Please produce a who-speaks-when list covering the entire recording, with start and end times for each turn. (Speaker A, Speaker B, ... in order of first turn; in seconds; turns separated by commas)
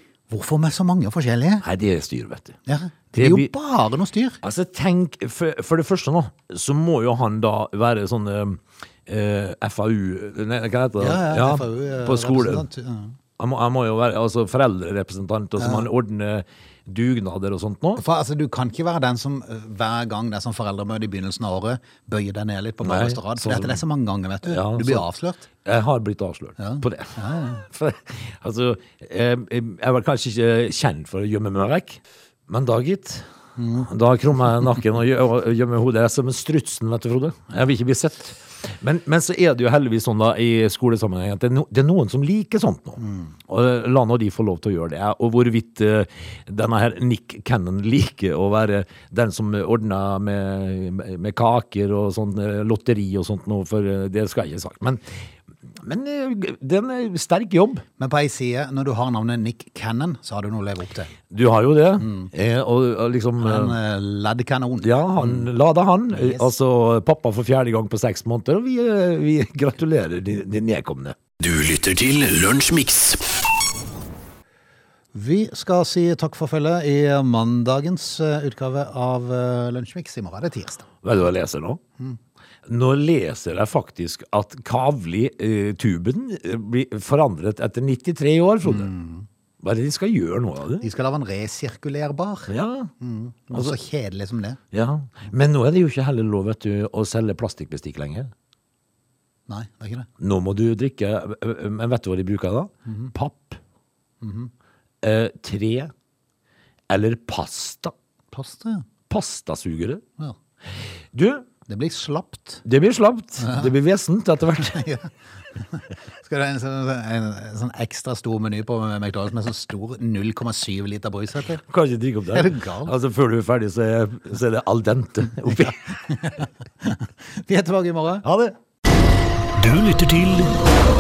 Speaker A: 0.3-1.6, Speaker B: 1.6-2.6, Speaker A: 2.6-4.4, Speaker B: 3.1-3.5, Speaker B: 4.4-12.6, Speaker A: 11.0-13.2, Speaker B: 13.4-18.0, Speaker A: 15.6-15.9, Speaker A: 17.9-25.4, Speaker B: 22.8-23.8, Speaker B: 24.4-57.8, Speaker A: 26.6-27.6, Speaker A: 33.6-33.9, Speaker A: 43.0-43.3, Speaker A: 58.0-61.1, Speaker B: 61.3-63.8, Speaker A: 62.0-62.3, Speaker A: 63.4-65.5, Speaker B: 64.8-71.2, Speaker A: 66.1-66.5, Speaker C: 71.4-73.3, Speaker A: 75.1-80.8, Speaker B: 81.0-81.8, Speaker B: 82.7-88.9, Speaker A: 88.6-89.3, Speaker B: 89.6-90.9, Speaker A: 90.8-94.6, Speaker B: 92.5-92.9, Speaker B: 94.7-98.3, Speaker A: 99.5-100.1, Speaker B: 100.2-103.6, Speaker A: 102.9-103.1, Speaker A: 104.2-104.5, Speaker B: 105.0-105.9, Speaker B: 106.9-107.9, Speaker A: 108.3-108.8, Speaker B: 109.1-110.0, Speaker B: 111.1-111.5, Speaker A: 111.7-112.6, Speaker B: 112.6-114.8, Speaker A: 113.4-113.7, Speaker A: 114.6-121.6, Speaker B: 121.6-125.8, Speaker A: 122.3-122.9, Speaker A: 125.5-128.2, Speaker B: 128.2-128.6, Speaker C: 129.6-130.5